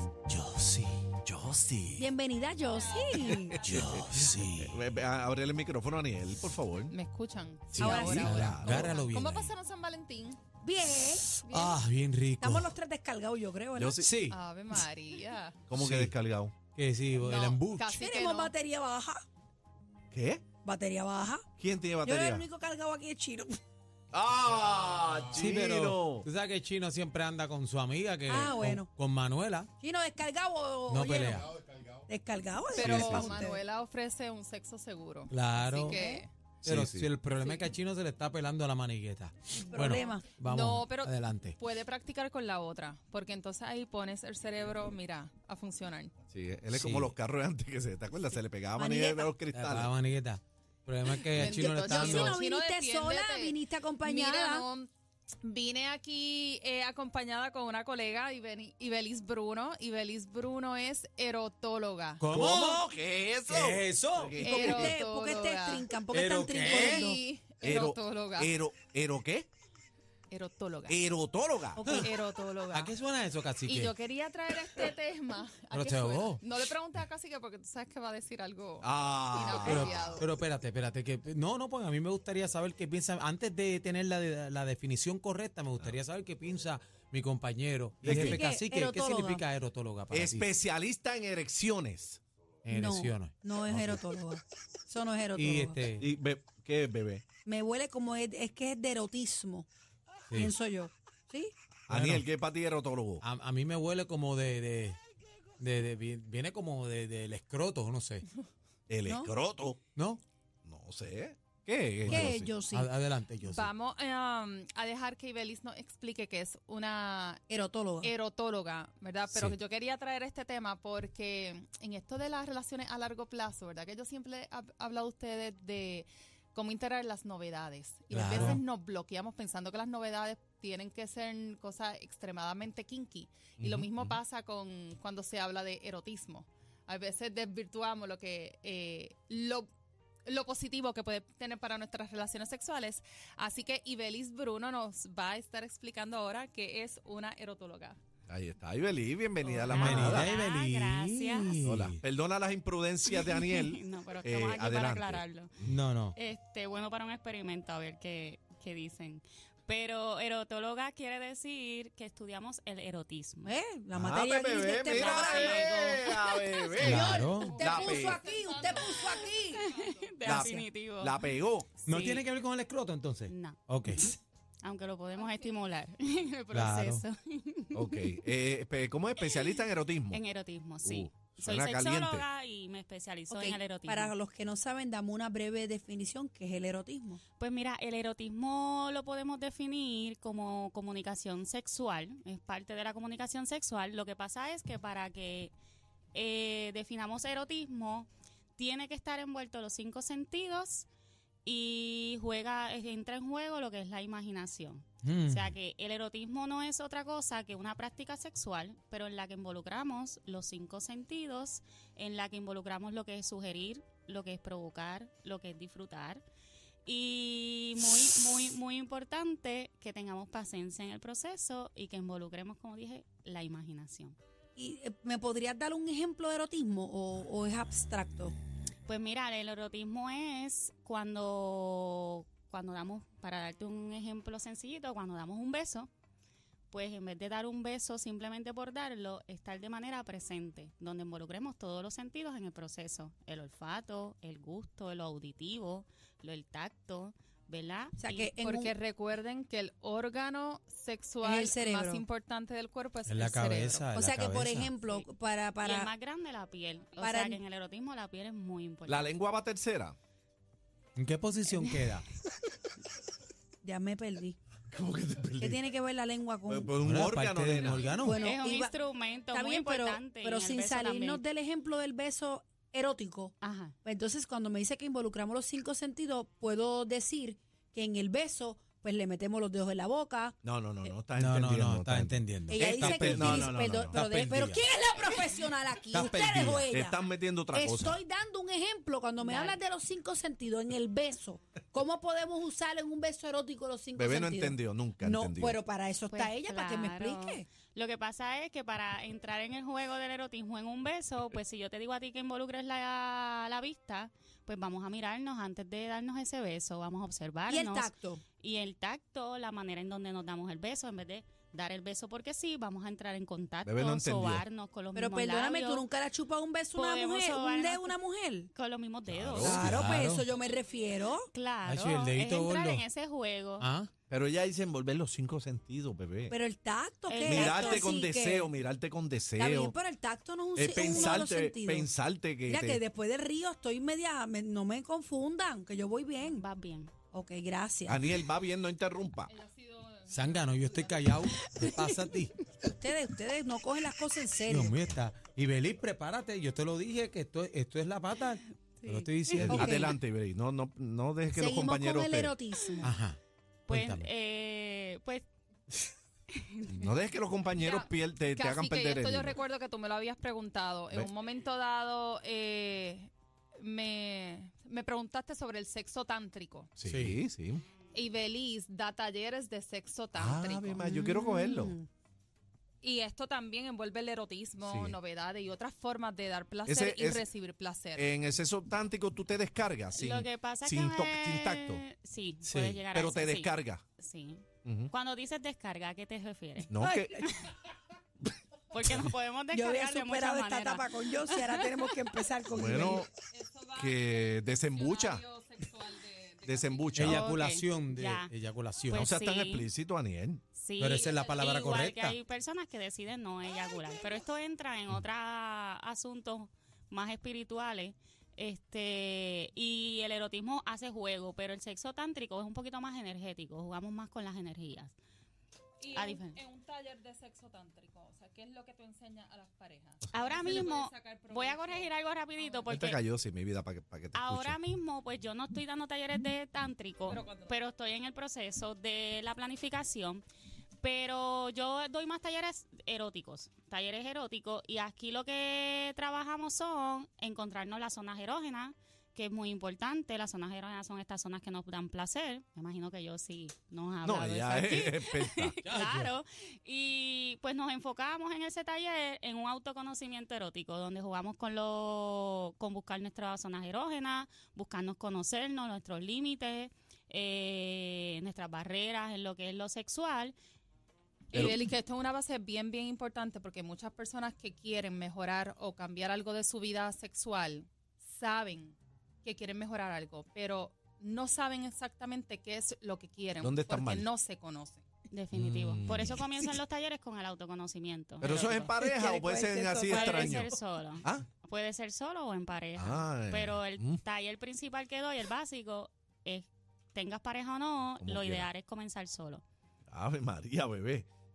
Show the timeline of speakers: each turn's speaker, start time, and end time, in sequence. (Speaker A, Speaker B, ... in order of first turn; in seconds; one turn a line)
Speaker A: 0.3-1.1
Speaker B: 1.2-2.1
Speaker C: 2.0-3.6
Speaker D: 2.7-3.9
Speaker B: 3.5-6.9
Speaker A: 3.6-4.8
Speaker D: 6.9-10.4
Speaker B: 7.7-8.9
Speaker A: 7.7-9.5
Speaker C: 7.8-8.4
Speaker C: 10.6-11.4
Speaker A: 11.4-12.7
Speaker C: 12.4-14.0
Speaker B: 13.7-14.1
Speaker A: 14.0-14.4
Speaker D: 14.3-15.6
Speaker B: 15.7-16.6
Speaker A: 15.7-16.1
Speaker A: 16.7-17.9
Speaker D: 17.1-18.5
Speaker C: 17.9-19.2
Speaker B: 20.1-20.4
Speaker C: 20.6-21.4
Speaker B: 21.6-22.4
Speaker C: 22.0-23.6
Speaker B: 24.1-26.3
Speaker A: 25.3-29.7
Speaker C: 28.3-28.9
Speaker C: 29.8-33.6
Speaker A: 30.9-31.5
Speaker D: 32.7-36.3
Speaker A: 32.8-33.3
Speaker A: 35.3-36.0
Speaker C: 35.9-36.2
Speaker B: 36.6-37.1
Speaker A: 36.6-41.5
Speaker C: 39.6-40.3
Speaker D: 39.9-46.1
Speaker B: 46.3-49.9
Speaker A: 46.7-47.1
Speaker C: 48.8-49.3
Speaker A: 49.5-52.4
Speaker D: 51.2-54.9
Speaker C: 51.7-54.6
Speaker D: 55.4-62.2
Speaker A: 62.2-62.8
Speaker B: 62.3-64.9
Speaker A: 63.5-64.4
Speaker D: 64.4-65.9
Speaker C: 64.4-67.2
Speaker A: 66.1-67.1
Speaker D: 66.6-68.5
Speaker B: 67.6-69.5
Speaker D: 70.3-71.0
Speaker B: 70.9-72.1
Speaker C: 71.8-72.1
Speaker D: 71.9-73.0
Speaker A: 72.7-73.9
Speaker D: 73.6-80.3
Speaker A: 75.7-76.4
Speaker B: 78.8-80.2
Speaker A: 79.6-90.5
Speaker B: 88.0-88.4
Speaker C: 88.1-89.4
Speaker B: 90.1-92.2
Speaker A: 92.6-93.9
Speaker C: 92.7-95.8
Speaker A: 95.4-96.0
Speaker B: 96.0-97.2
Speaker C: 97.4-99.7
Speaker C: 100.3-101.5
Speaker B: 101.9-103.2
Speaker A: 101.9-102.2
Speaker A: 103.2-105.0
Speaker A: 105.6-108.3
Speaker B: 108.9-109.8
Speaker A: 110.0-110.2
Speaker B: 110.6-112.5
Speaker A: 112.0-113.7
Speaker C: 112.1-112.9
Speaker D: 113.4-117.4
Speaker C: 117.5-118.1
Speaker D: 118.0-139.7
Speaker A: 128.1-128.6
Speaker B: 133.6-134.2
Speaker D: 140.3-148.0
Speaker B: 148.3-150.3
Speaker E: 149.4-151.6
Speaker A: 149.7-152.0
Speaker B: 151.6-155.2
Speaker E: 153.1-155.5
Speaker A: 155.7-156.2
Speaker E: 156.1-163.5
Speaker C: 163.4-165.8
Speaker B: 164.0-168.2
Speaker E: 164.9-166.1
Speaker A: 166.8-167.6
Speaker C: 166.8-169.6
Speaker D: 167.1-170.5
Speaker E: 169.5-171.3
Speaker B: 170.2-171.8
Speaker A: 171.8-174.1
Speaker E: 171.8-172.2
Speaker E: 173.3-178.1
Speaker A: 176.5-177.0
Speaker B: 177.7-180.2
Speaker E: 179.2-179.5
Speaker E: 180.1-184.1
Speaker B: 180.8-182.2
Speaker C: 183.3-187.2
Speaker E: 187.4-195.5
Speaker E: 196.1-200.9
Speaker E: 201.4-216.2
Speaker A: 205.0-205.5
Speaker E: 216.8-224.2
Speaker C: 224.6-228.3
Speaker E: 228.8-235.9
Speaker E: 236.7-248.3
Speaker C: 248.0-248.7
Speaker D: 248.4-253.9
Speaker C: 251.2-252.0
Speaker A: 253.1-254.7
Speaker C: 253.9-255.9
Speaker E: 255.6-259.1
Speaker C: 257.0-257.4
Speaker B: 258.9-259.9
Speaker A: 260.9-262.0
Speaker C: 263.6-264.4
Speaker B: 264.7-265.6
Speaker C: 265.4-266.7
Speaker B: 266.5-267.9
Speaker A: 266.8-268.2
Speaker D: 267.6-268.4
Speaker C: 267.9-268.8
Speaker E: 268.1-271.2
Speaker C: 269.3-280.9
Speaker E: 273.4-273.7
Speaker B: 280.4-284.0
Speaker A: 281.1-284.6
Speaker C: 282.5-287.0
Speaker A: 285.9-286.7
Speaker B: 286.7-288.0
Speaker C: 287.5-297.4
Speaker E: 289.2-289.6
Speaker B: 293.9-295.6
Speaker E: 296.1-315.9
Speaker C: 307.5-308.2
Speaker B: 313.6-314.4
Speaker C: 314.9-318.5
Speaker E: 316.7-317.9
Speaker E: 318.5-319.6
Speaker B: 319.1-319.8
Speaker C: 319.4-321.3
Speaker A: 319.4-320.2
Speaker E: 321.3-323.7
Speaker A: 321.6-322.8
Speaker A: 323.6-323.9
Speaker B: 324.1-326.3
Speaker C: 326.3-328.5
Speaker E: 327.1-327.9
Speaker B: 327.2-329.7
Speaker C: 329.4-331.9
Speaker B: 330.6-332.8
Speaker C: 332.5-336.4
Speaker E: 336.3-336.9
Speaker C: 337.1-338.1
Speaker B: 337.9-339.3
Speaker D: 339.3-341.0
Speaker A: 340.1-342.4
Speaker C: 342.6-344.7
Speaker A: 344.5-349.9
Speaker E: 348.8-349.5
Speaker C: 349.4-350.0
Speaker B: 349.5-352.3
Speaker C: 351.3-352.9
Speaker A: 352.8-353.2
Speaker E: 353.7-355.3
Speaker A: 353.7-354.1
Speaker E: 356.3-356.9
Speaker B: 356.7-359.4
Speaker D: 357.5-366.7
Speaker B: 366.8-367.6
Speaker A: 366.8-367.2
Speaker D: 367.9-370.9
Speaker B: 370.1-371.7
Speaker C: 370.8-371.9
Speaker D: 372.8-378.1
Speaker B: 374.6-374.9
Speaker B: 376.6-377.2
Speaker B: 377.9-381.8
Speaker E: 379.9-387.5
Speaker A: 382.4-382.8
Speaker B: 382.9-383.8
Speaker B: 384.6-384.9
Speaker B: 386.7-387.2
Speaker C: 386.8-387.3
Speaker E: 388.7-391.9
Speaker C: 389.5-393.0
Speaker B: 392.5-393.1
Speaker D: 392.6-397.1
Speaker B: 393.7-395.2
Speaker B: 396.4-397.3
Speaker A: 396.9-399.1
Speaker E: 397.1-398.3
Speaker E: 398.9-399.6
Speaker B: 398.9-400.4
Speaker E: 400.5-414.9
Speaker A: 400.8-402.2
Speaker D: 400.9-401.2
Speaker D: 415.8-422.7
Speaker E: 415.9-416.4
Speaker E: 420.1-423.0
Speaker B: 422.7-424.6
Speaker E: 424.1-430.2
Speaker D: 427.1-427.6
Speaker E: 430.8-460.4
Speaker B: 444.0-445.5
Speaker A: 445.6-446.1
Speaker D: 461.3-474.8
Speaker B: 461.3-461.6
Speaker B: 473.4-474.1
Speaker E: 475.1-478.7
Speaker B: 475.3-476.2
Speaker B: 478.2-481.2
Speaker C: 478.8-480.5
Speaker E: 479.9-489.4
Speaker B: 482.8-484.0
Speaker B: 488.0-488.5
Speaker B: 489.9-491.1